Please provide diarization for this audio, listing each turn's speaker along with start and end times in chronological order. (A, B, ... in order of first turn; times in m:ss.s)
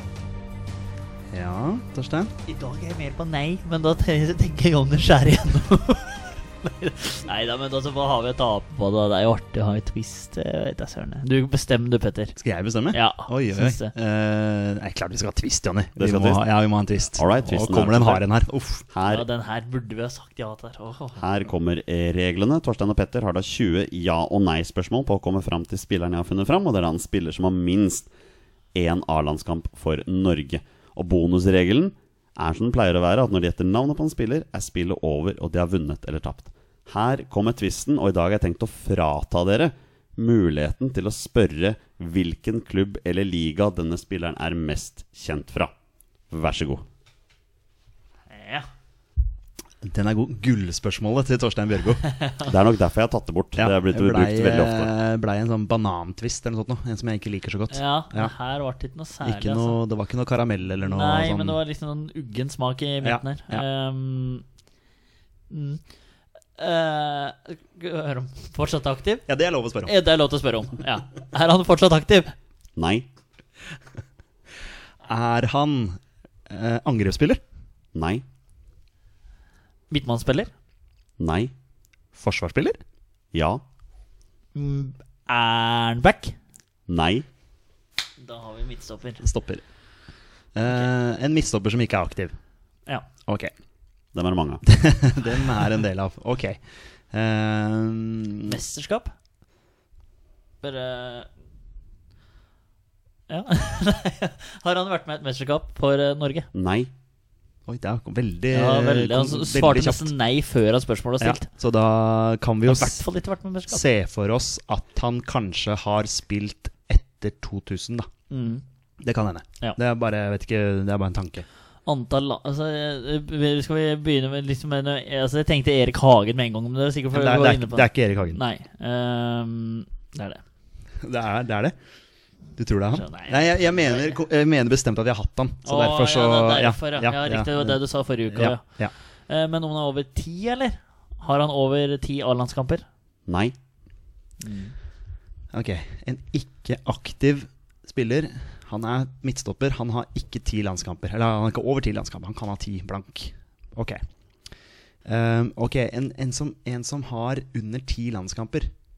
0:01.3-0:02.3 A
0:02.5-0:12.4 B
0:12.4-0:18.8 A
0:12.9-0:13.9 B
0:16.0-0:16.4 C
0:17.1-0:18.2 C
0:18.9-0:19.3 C
0:19.0-0:21.2 B
0:21.2-0:28.1 C
0:28.7-0:45.7 C
0:46.3-0:46.8 C
0:48.3-0:48.7 B
0:49.8-0:52.0 A
0:52.1-0:52.5 B
0:52.5-0:54.9 C
0:53.6-0:58.3 A
0:57.7-0:59.8 B
0:59.2-1:01.6 A
1:00.9-1:04.4 B
1:03.0-1:03.6 A
1:05.5-1:05.8 B
1:06.6-1:09.3 B
1:09.3-1:09.9 A
1:09.8-1:12.3 B
1:12.8-1:13.0 C
1:15.0-1:17.4 A
1:17.9-1:18.2 C
1:19.9-1:20.5 B
1:21.2-1:21.5 C
1:22.1-1:22.8 A
1:23.3-1:23.6 C
1:24.6-1:26.4 B
1:26.9-1:27.2 C
1:28.2-1:29.2 B
1:29.2-1:29.6 A
1:30.5-1:32.3 A
1:34.1-1:34.6 C
1:34.7-1:38.6 A
1:38.4-1:39.1 B
1:40.6-1:41.3 B
1:43.3-1:46.5 B
1:46.5-1:46.9 C
1:47.7-1:50.1 A
1:48.5-1:51.4 B
1:51.2-1:53.0 A
1:52.6-1:53.8 B
1:53.7-1:58.1 A
1:58.3-1:58.6 B
1:59.0-2:01.4 A
2:01.9-2:10.4 B
2:07.1-2:08.4 A
2:11.0-2:11.7 A
2:12.6-2:18.9 A
2:12.9-2:14.1 B
2:15.6-2:22.8 B
2:23.3-2:23.5 C
2:24.4-2:24.7 B
2:25.5-2:34.0 A
2:35.0-2:38.7 A